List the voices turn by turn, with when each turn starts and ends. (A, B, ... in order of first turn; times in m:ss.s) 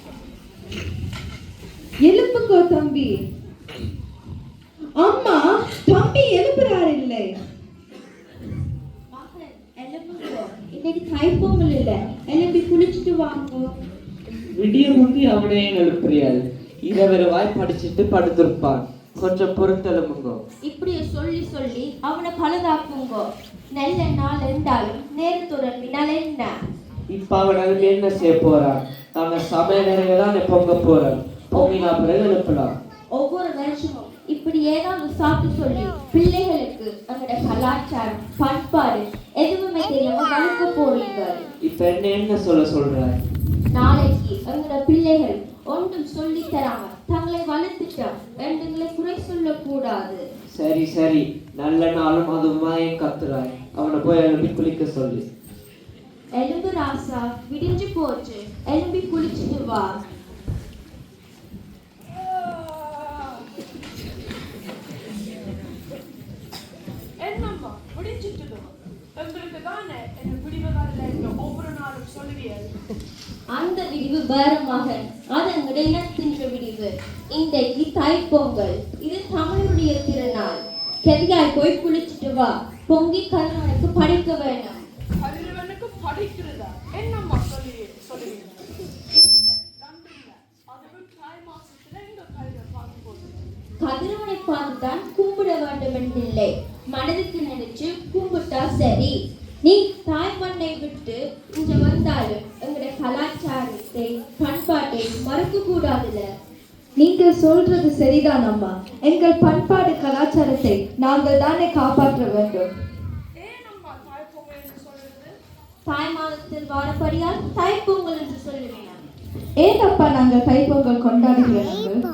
0:02.0-0:03.2 A
0:05.0-0:07.3 A
0:09.1-0:13.7 B
0:14.6-0:20.4 C
0:20.6-0:26.5 B
0:27.1-0:32.7 C
0:31.5-0:31.9 B
0:33.1-0:41.4 B
0:41.6-0:43.1 C
0:43.7-0:50.2 B
0:50.5-0:55.2 C
0:56.4-0:59.9 B
1:02.1-1:03.5 D
1:07.2-1:12.7 D
1:13.5-1:24.8 B
1:25.2-1:33.5 D
1:33.8-1:46.2 B
1:47.0-1:52.7 A
1:53.3-1:55.3 D
1:55.8-1:59.0 B
1:59.6-2:02.0 A